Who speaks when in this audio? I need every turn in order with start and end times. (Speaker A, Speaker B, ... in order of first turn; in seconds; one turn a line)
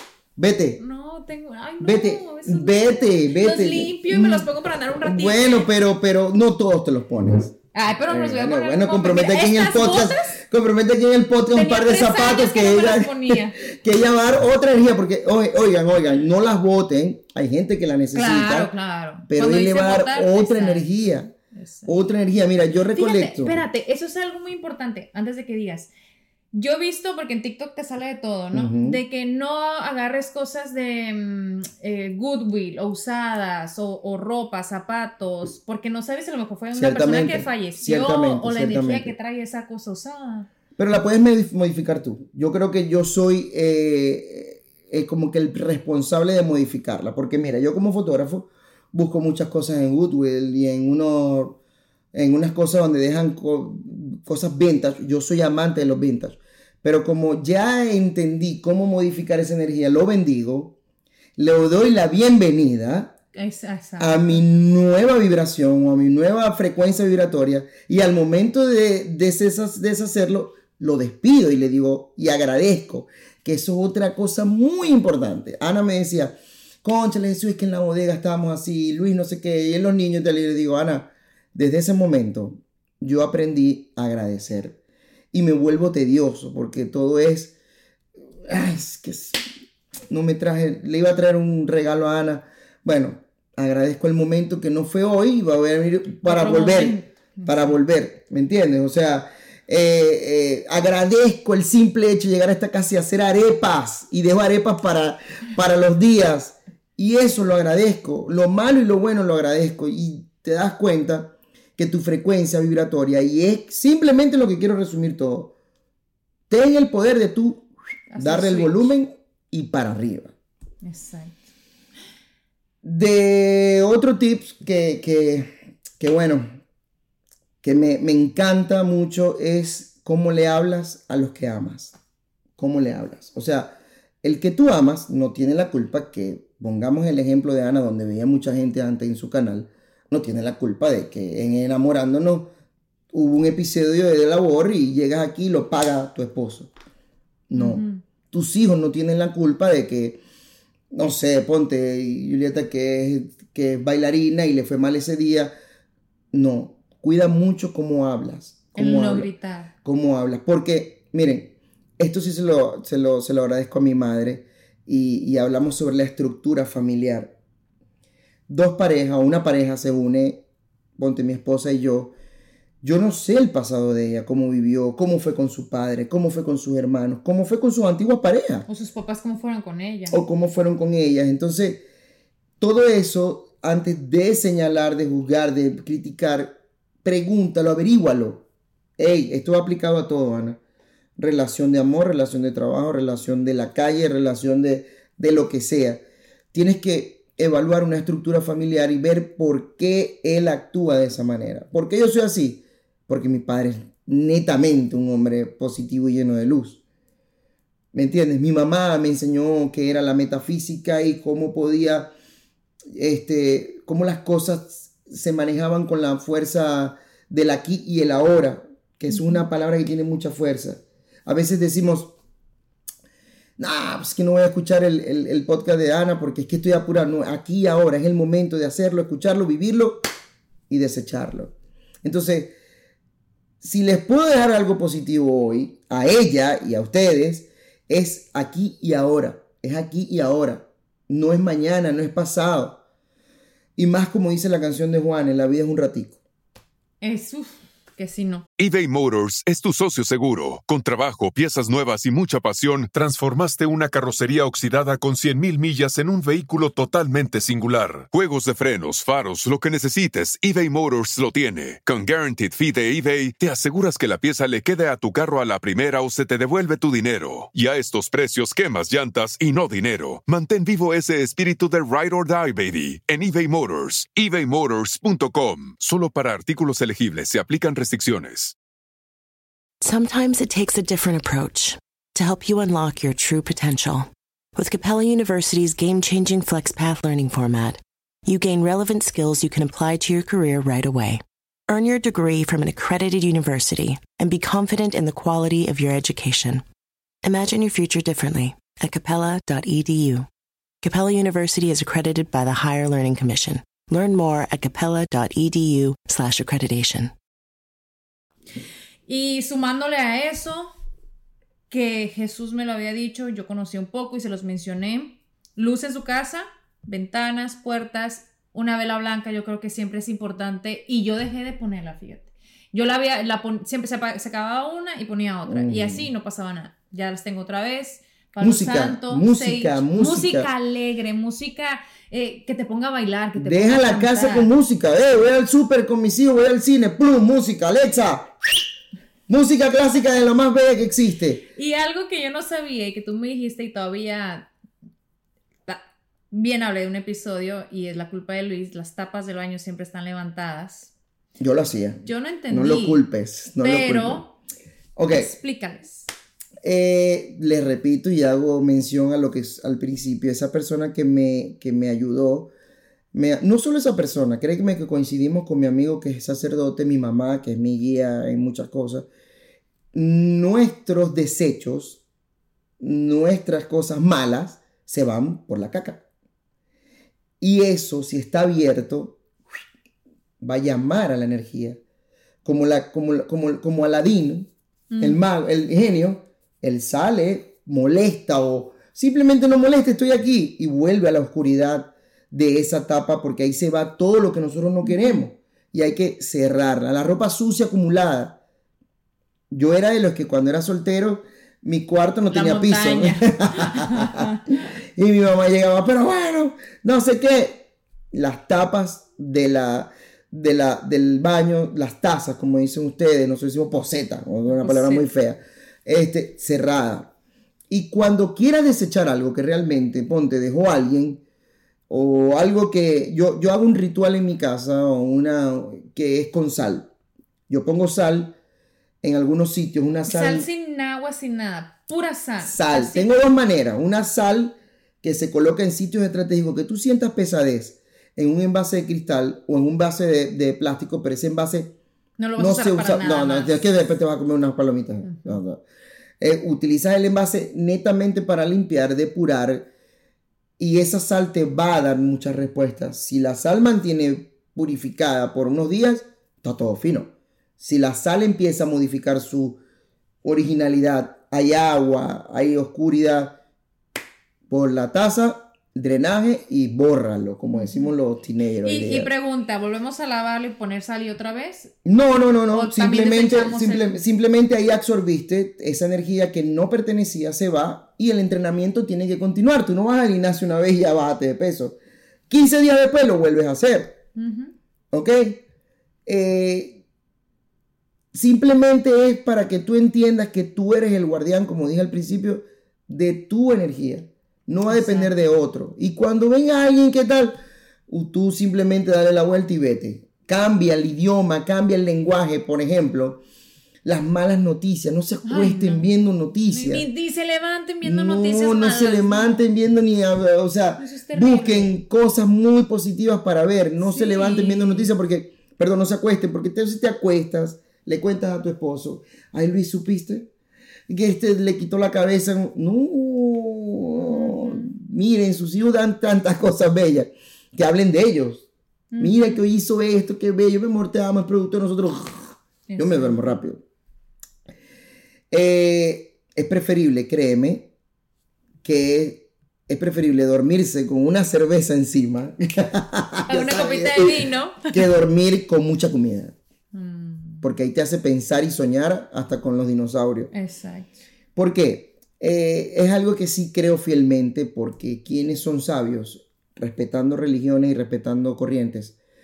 Speaker A: 0.3-0.8
Speaker B: 0.8-5.7
Speaker A: 1.8-4.5
Speaker A: 5.0-7.6
Speaker B: 7.7-10.4
Speaker A: 8.1-18.7
Speaker B: 11.5-13.6
Speaker B: 18.1-20.9
Speaker A: 19.3-21.3
Speaker B: 21.5-21.9
Speaker A: 21.9-23.6
Speaker B: 22.9-25.9
Speaker B: 26.5-40.5
Speaker A: 28.5-29.0
Speaker A: 36.7-39.1
Speaker A: 40.8-51.6
Speaker A: 52.1-60.7
Speaker A: 61.4-63.1
Speaker B: 63.3-64.4
Speaker A: 64.0-84.8
Speaker A: 85.3-87.5
Speaker A: 88.5-89.5
Speaker A: 90.1-115.5
Speaker B: 96.3-97.7
Speaker A: 116.5-120.3
Speaker B: 118.1-118.9
Speaker B: 120.8-121.4
Speaker A: 122.8-126.5
Speaker A: 127.6-131.9
Speaker A: 132.6-142.5
Speaker A: 143.1-146.7
Speaker A: 147.5-150.2
Speaker B: 147.5-148.0
Speaker A: 150.9-155.5
Speaker A: 156.3-159.3
Speaker B: 158.7-159.7
Speaker A: 159.8-167.3
Speaker A: 168.5-170.4
Speaker A: 171.0-172.1
Speaker A: 172.8-178.7
Speaker B: 178.7-180.2
Speaker A: 180.1-181.8
Speaker A: 182.6-188.4
Speaker A: 189.0-190.6
Speaker A: 191.2-196.0
Speaker A: 196.5-206.8
Speaker A: 207.9-212.1
Speaker A: 212.9-222.1
Speaker A: 223.6-230.1
Speaker A: 230.7-231.5
Speaker A: 232.0-232.5
Speaker A: 233.6-242.8
Speaker A: 243.8-246.2
Speaker B: 247.0-248.4
Speaker C: 248.6-278.5
Speaker D: 279.8-296.6
Speaker D: 297.2-300.3
Speaker D: 300.8-307.1
Speaker B: 309.1-310.7
Speaker B: 311.7-334.5
Speaker A: 325.4-326.1
Speaker A: 328.4-330.5
Speaker A: 333.4-338.3
Speaker A: 339.3-341.4
Speaker B: 341.6-344.5
Speaker B: 345.7-350.9
Speaker A: 351.4-354.3
Speaker B: 352.0-353.0
Speaker B: 353.6-354.3
Speaker A: 354.9-355.3
Speaker B: 355.1-356.1
Speaker A: 356.6-362.5
Speaker A: 363.1-369.1
Speaker A: 369.9-372.0
Speaker A: 372.8-376.0
Speaker A: 377.4-379.2
Speaker A: 380.4-381.8
Speaker A: 382.4-398.4
Speaker B: 384.9-385.2
Speaker B: 394.8-395.2
Speaker A: 399.5-417.1
Speaker B: 402.3-404.6
Speaker B: 414.5-415.1
Speaker A: 417.7-421.2
Speaker A: 421.9-426.9
Speaker A: 427.5-428.3
Speaker A: 429.0-430.5
Speaker B: 430.1-433.1
Speaker A: 432.4-441.7
Speaker B: 442.2-443.6
Speaker A: 442.4-445.6
Speaker B: 445.0-445.4
Speaker A: 446.2-449.7
Speaker A: 450.6-459.6
Speaker A: 460.2-463.4
Speaker A: 464.5-469.1
Speaker B: 467.5-467.9
Speaker B: 468.6-471.7
Speaker A: 471.8-481.8
Speaker B: 472.5-474.0
Speaker A: 482.3-484.0
Speaker B: 484.1-484.5
Speaker A: 484.9-485.4
Speaker A: 486.1-486.8
Speaker A: 488.1-503.2
Speaker B: 494.7-495.1
Speaker A: 503.8-506.9
Speaker B: 505.2-505.9
Speaker B: 506.5-509.4
Speaker A: 507.8-520.3
Speaker B: 510.8-511.7
Speaker B: 513.8-514.9
Speaker A: 520.9-528.5
Speaker B: 524.0-524.7
Speaker B: 528.9-529.4
Speaker A: 529.0-533.6
Speaker B: 532.7-533.3
Speaker A: 535.3-537.7
Speaker A: 538.6-546.4
Speaker B: 543.3-544.8
Speaker B: 546.7-547.4
Speaker A: 547.4-550.3
Speaker B: 550.3-551.0
Speaker A: 551.4-559.0